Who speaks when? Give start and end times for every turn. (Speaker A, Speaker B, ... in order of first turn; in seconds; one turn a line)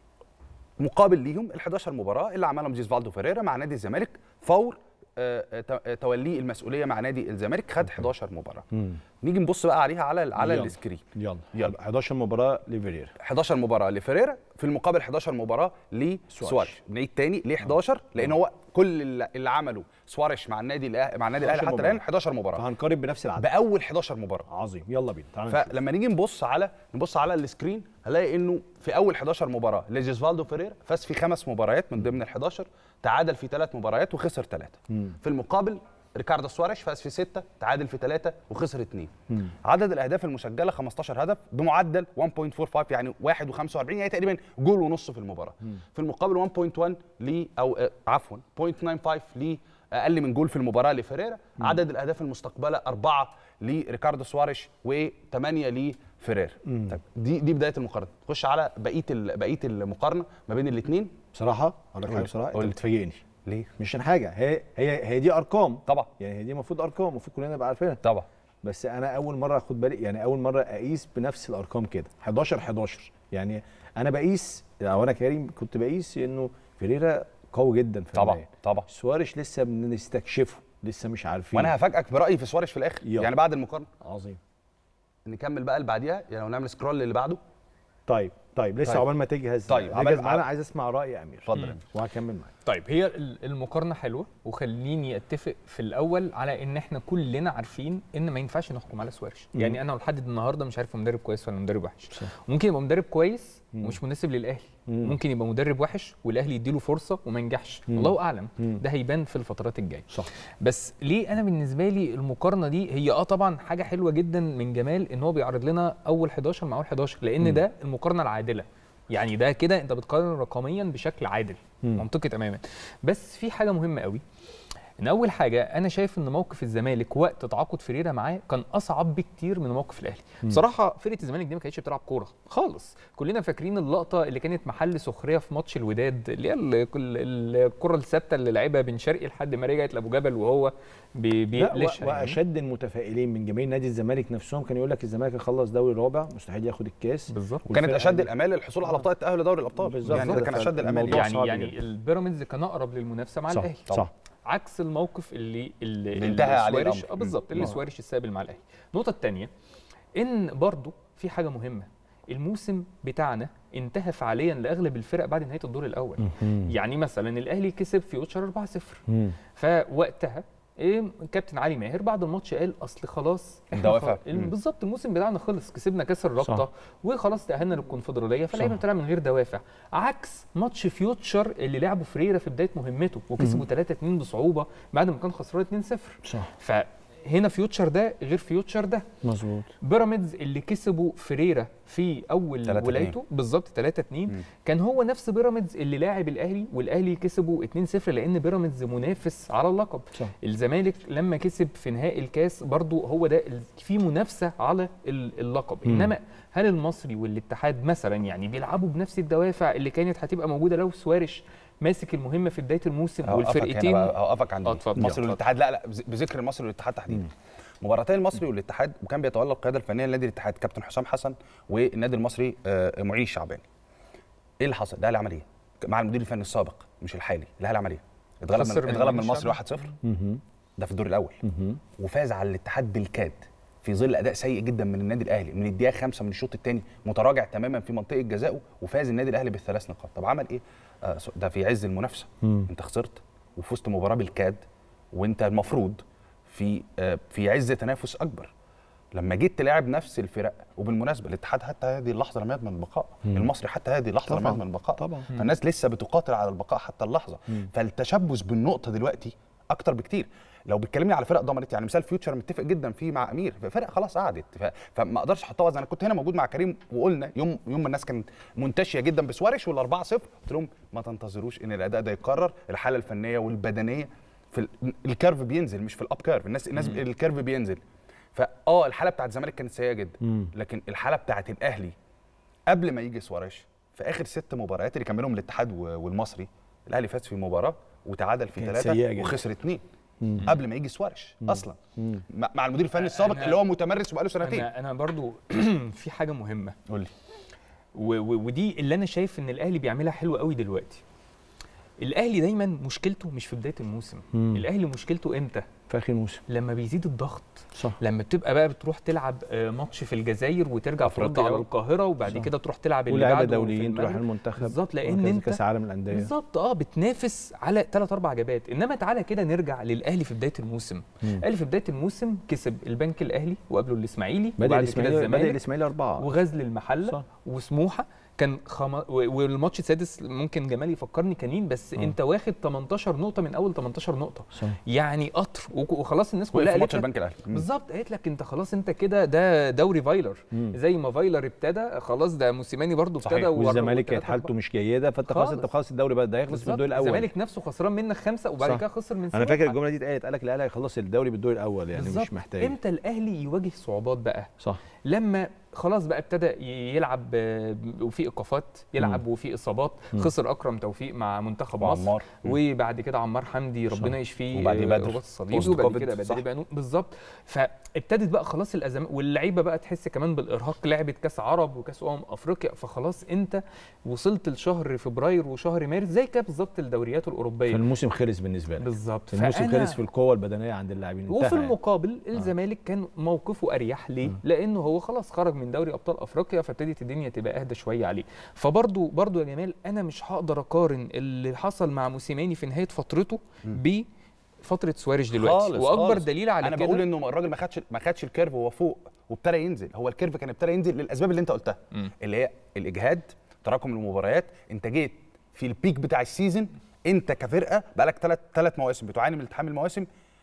Speaker A: 0.8-8.6
Speaker B: 8.7-9.0
Speaker A: 9.2-11.0
Speaker B: 10.4-13.1
Speaker A: 13.2-22.6
Speaker B: 16.3-16.7
Speaker B: 21.4-22.0
Speaker B: 22.6-23.5
Speaker A: 23.4-24.5
Speaker B: 24.5-25.8
Speaker A: 25.5-39.1
Speaker A: 39.6-61.1
Speaker B: 56.7-56.9
Speaker B: 61.3-63.2
Speaker A: 62.0-62.8
Speaker A: 63.5-63.7
Speaker B: 63.8-68.0
Speaker B: 68.6-81.7
Speaker A: 78.1-78.9
Speaker A: 81.5-83.9
Speaker B: 83.0-83.3
Speaker B: 84.0-84.4
Speaker A: 85.2-87.4
Speaker B: 88.1-92.5
Speaker A: 89.7-90.4
Speaker A: 91.5-91.8
Speaker C: 92.7-124.2
Speaker B: 104.9-105.2
Speaker B: 107.9-108.8
Speaker B: 117.4-117.6
Speaker C: 125.0-142.4
Speaker B: 141.6-148.3
Speaker C: 147.3-147.7
Speaker A: 147.7-151.3
Speaker B: 149.8-151.8
Speaker C: 150.1-150.4
Speaker C: 151.1-159.5
Speaker B: 153.5-154.1
Speaker A: 156.2-157.7
Speaker C: 160.2-189.1
Speaker B: 166.2-166.7
Speaker B: 169.1-169.4
Speaker A: 173.7-174.5
Speaker B: 183.4-183.7
Speaker B: 186.2-186.5
Speaker B: 189.2-189.7
Speaker C: 189.8-215.4
Speaker A: 192.7-193.2
Speaker B: 205.8-206.1
Speaker A: 213.2-223.7
Speaker A: 224.6-229.9
Speaker C: 228.5-229.6
Speaker B: 230.0-230.4
Speaker A: 230.8-231.4
Speaker B: 231.4-231.8
Speaker A: 232.0-248.5
Speaker B: 242.4-242.7
Speaker A: 249.1-277.8
Speaker B: 254.2-255.3
Speaker A: 278.4-281.9
Speaker B: 280.2-280.5
Speaker A: 282.7-289.8
Speaker B: 288.6-289.4
Speaker B: 290.2-290.6
Speaker A: 290.4-291.8
Speaker B: 291.4-292.2
Speaker A: 292.3-294.7
Speaker C: 293.0-293.7
Speaker C: 294.4-296.8
Speaker C: 297.9-301.0
Speaker C: 302.0-305.6
Speaker B: 304.3-304.6
Speaker B: 305.9-306.4
Speaker C: 306.5-325.6
Speaker A: 311.1-311.6
Speaker B: 313.1-316.3
Speaker B: 324.6-326.3
Speaker C: 326.2-344.5
Speaker A: 336.5-337.7
Speaker A: 343.2-343.5
Speaker B: 343.5-347.3
Speaker C: 345.2-345.7
Speaker C: 346.5-349.8
Speaker B: 348.6-352.8
Speaker C: 351.9-354.5
Speaker C: 355.1-377.8
Speaker A: 361.8-362.6
Speaker A: 364.5-366.4
Speaker B: 377.7-381.8
Speaker C: 378.8-380.0
Speaker C: 381.3-394.1
Speaker C: 394.6-397.1
Speaker A: 395.3-410.1